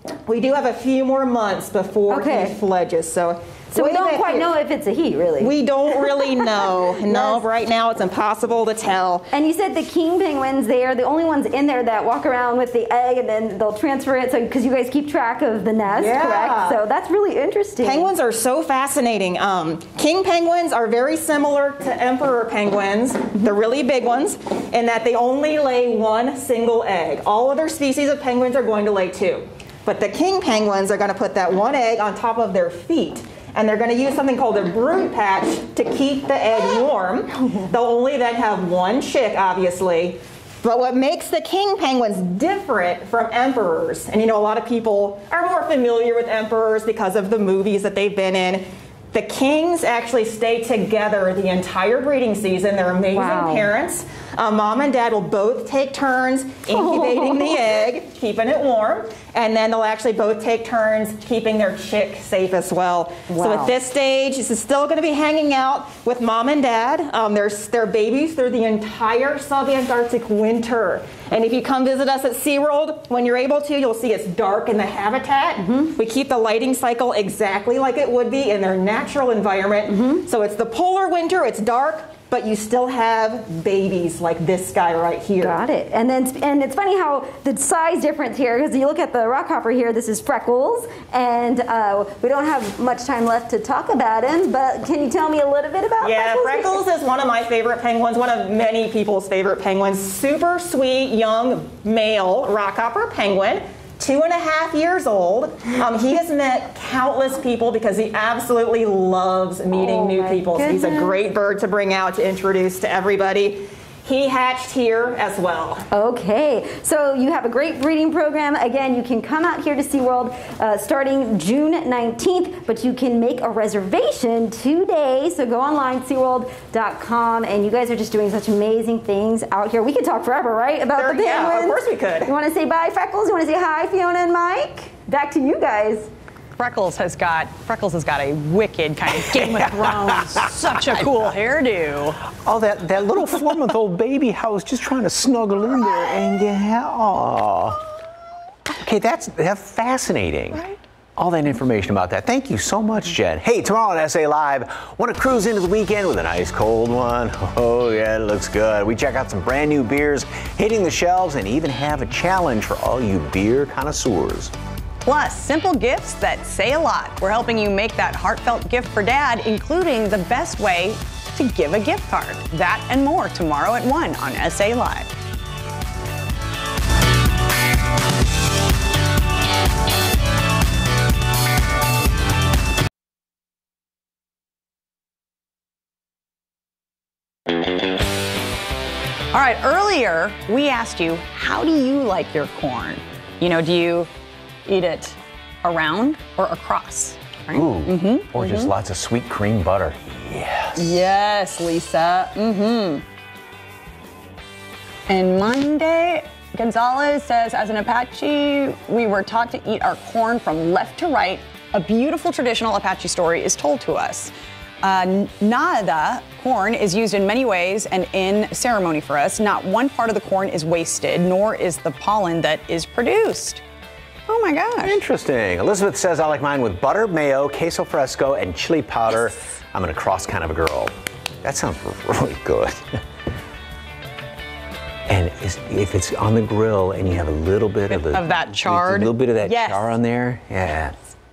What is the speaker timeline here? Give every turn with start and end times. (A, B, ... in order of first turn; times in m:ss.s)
0:00.3-0:04.5 A
0:02.1-0:02.6 B
0:03.7-0:05.5 B
0:05.4-0:09.3 A
0:07.0-0:07.4 B
0:09.3-0:18.1 B
0:15.9-0:16.8 A
0:17.8-1:25.6 A
0:53.1-0:53.7 B
0:56.7-0:57.7 B
1:03.3-1:03.7 B
1:15.6-1:15.9 B
1:19.9-1:20.2 B
1:25.4-1:36.8 B
1:36.0-1:55.8 A
1:49.7-1:51.2 B
1:55.9-2:16.1 B
2:10.9-2:12.3 A
2:16.6-2:22.2 C
2:19.2-2:21.3 D
2:22.4-2:27.8 D
2:28.8-2:30.6 D
2:31.2-2:44.5 D
2:45.0-2:55.1 C
3:09.3-3:14.1 C
3:14.6-3:18.7 C
3:17.5-3:21.1 D
3:20.8-3:23.0 C
3:25.1-3:43.6 C
3:44.3-3:44.9 C
3:44.8-3:52.9 D
3:55.1-4:01.0 D
3:57.9-3:59.9 C